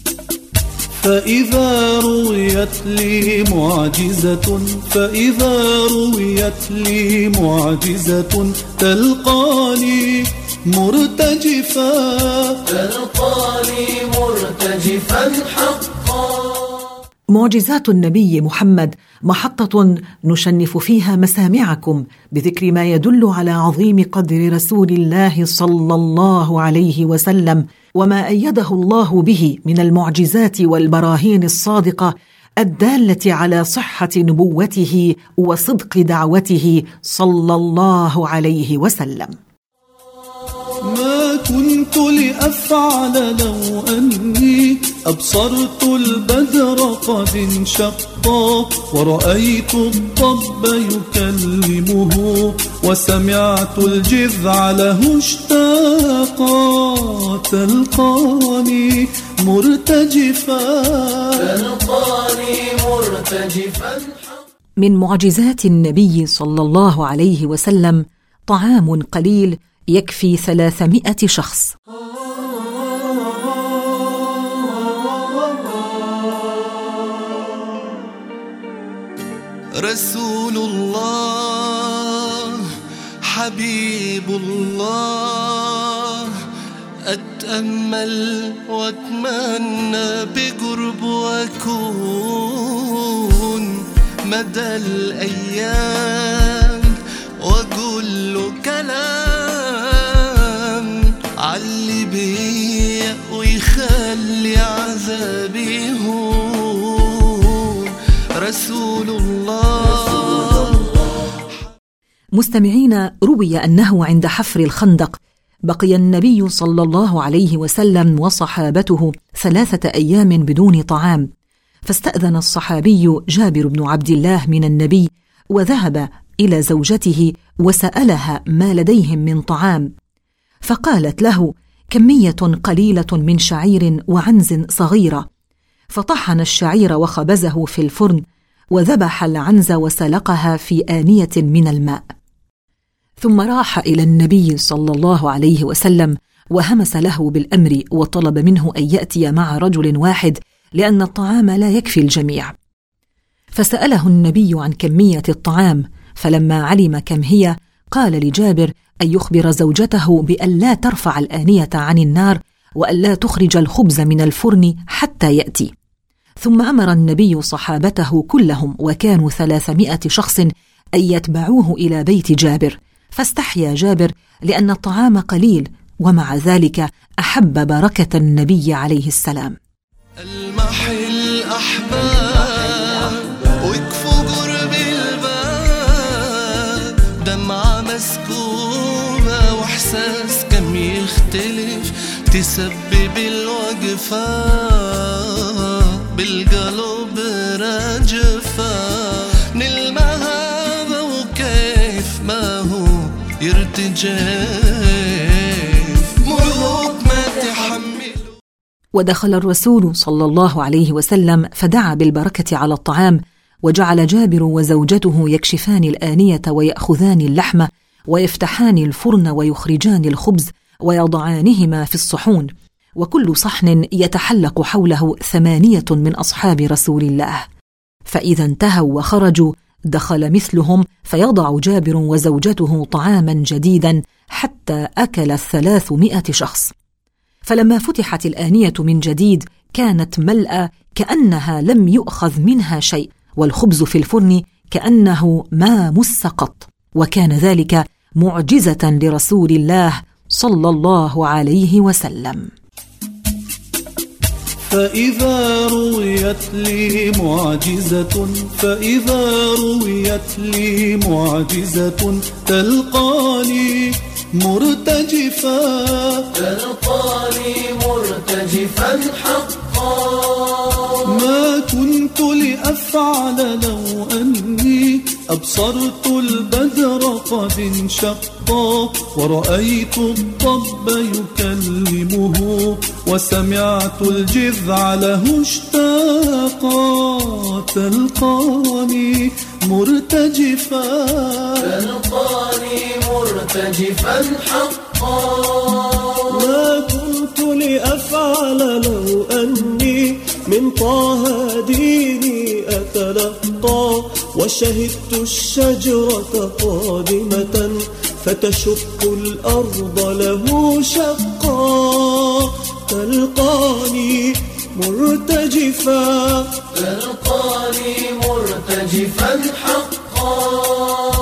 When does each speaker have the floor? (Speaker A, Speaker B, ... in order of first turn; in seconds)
Speaker A: 1.0-12.6, 40.9-61.6, 254.7-266.3, 271.0-291.8
Speaker B: 12.7-16.6, 61.6-64.4, 266.4-270.9, 291.9-296.2, 316.8-320.1
Speaker C: 17.3-39.3, 64.8-71.7, 112.4-121.3, 121.9-129.9, 130.6-135.2, 135.9-138.2, 138.7-142.1, 143.2-152.5, 153.5-165.7, 166.4-179.6, 208.9-227.4, 228.1-236.7, 237.4-252.5
Speaker D: 79.8-82.7, 83.2-86.4, 87.0-111.1, 180.2-208.3
Speaker E: 296.3-316.8, 319.4-320.6